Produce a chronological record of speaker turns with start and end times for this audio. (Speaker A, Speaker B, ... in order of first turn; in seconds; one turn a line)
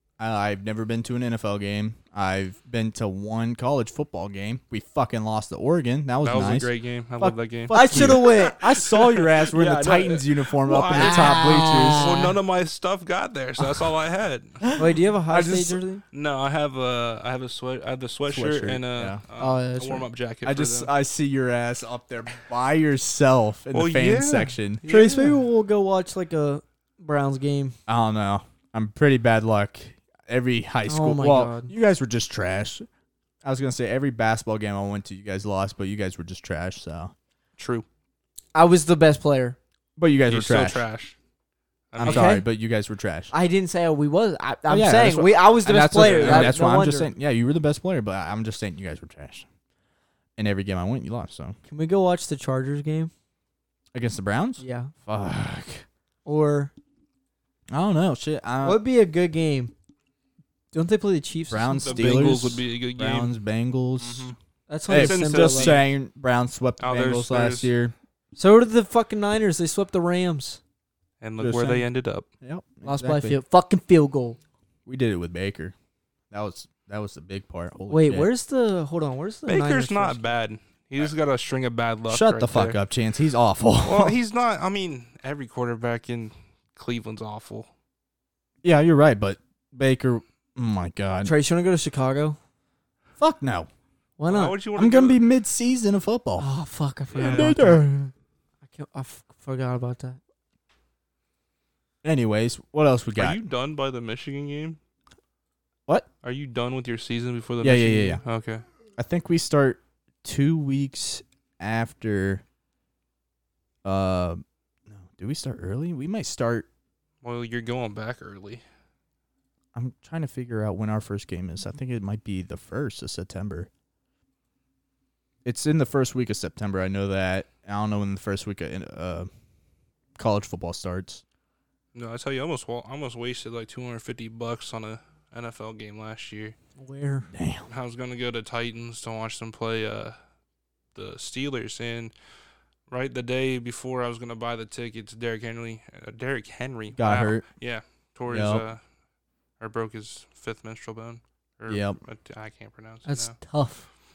Speaker A: 0.2-12.1
Speaker B: 6.2-14.6
Speaker C: 7.7-8.6
Speaker C: 10.9-12.4
Speaker A: 14.6-15.8
Speaker C: 14.8-16.0
Speaker B: 16.1-20.9
Speaker A: 18.3-19.2
Speaker C: 19.4-20.1
Speaker A: 20.4-25.3
Speaker B: 23.7-25.1
Speaker C: 24.8-27.8
Speaker A: 27.9-32.9
Speaker C: 30.9-31.7
Speaker A: 33.4-37.1
Speaker B: 37.6-37.9
Speaker C: 38.5-39.6
Speaker A: 40.0-40.8
Speaker B: 40.3-41.1
Speaker B: 41.9-42.4
Speaker A: 42.0-43.3
Speaker C: 42.0-42.5
Speaker C: 43.3-47.1
Speaker A: 44.7-49.5
Speaker B: 46.0-46.6
Speaker A: 50.4-51.6
Speaker C: 51.7-53.1
Speaker A: 53.9-55.9
Speaker C: 54.6-54.9
Speaker C: 56.2-56.7
Speaker A: 57.7-58.8
Speaker C: 58.6-59.7
Speaker C: 60.7-62.1
Speaker A: 61.5-64.3
Speaker B: 61.8-63.3
Speaker B: 64.0-64.4
Speaker C: 64.7-65.8
Speaker B: 64.9-65.9
Speaker A: 64.9-67.9
Speaker B: 66.8-67.7
Speaker C: 68.3-70.6
Speaker B: 71.2-72.3
Speaker A: 71.4-71.9
Speaker A: 72.4-73.4
Speaker C: 72.8-74.4
Speaker A: 74.9-75.7
Speaker A: 76.3-78.3
Speaker C: 77.9-80.2
Speaker B: 79.5-82.8
Speaker A: 82.1-84.2
Speaker B: 83.8-87.7
Speaker A: 88.6-91.3
Speaker C: 91.2-92.4
Speaker A: 93.2-93.7
Speaker C: 94.2-94.6
Speaker B: 94.3-95.2
Speaker A: 94.7-96.5
Speaker C: 96.4-98.1
Speaker B: 97.1-97.5
Speaker A: 97.2-97.8
Speaker C: 98.7-100.2
Speaker A: 102.0-103.4
Speaker B: 103.2-104.8
Speaker B: 106.2-108.6
Speaker A: 107.6-108.2
Speaker A: 109.0-112.4
Speaker A: 113.8-116.7
Speaker B: 117.2-118.6
Speaker A: 119.8-123.7
Speaker A: 125.5-129.3
Speaker A: 130.2-131.2
Speaker B: 131.9-136.6
Speaker C: 136.8-137.3
Speaker A: 137.3-137.7
Speaker B: 137.7-140.2
Speaker B: 140.9-142.1
Speaker B: 142.9-148.8
Speaker A: 147.0-147.4
Speaker A: 148.3-148.7
Speaker B: 149.6-153.3
Speaker A: 151.7-152.0
Speaker C: 153.1-153.9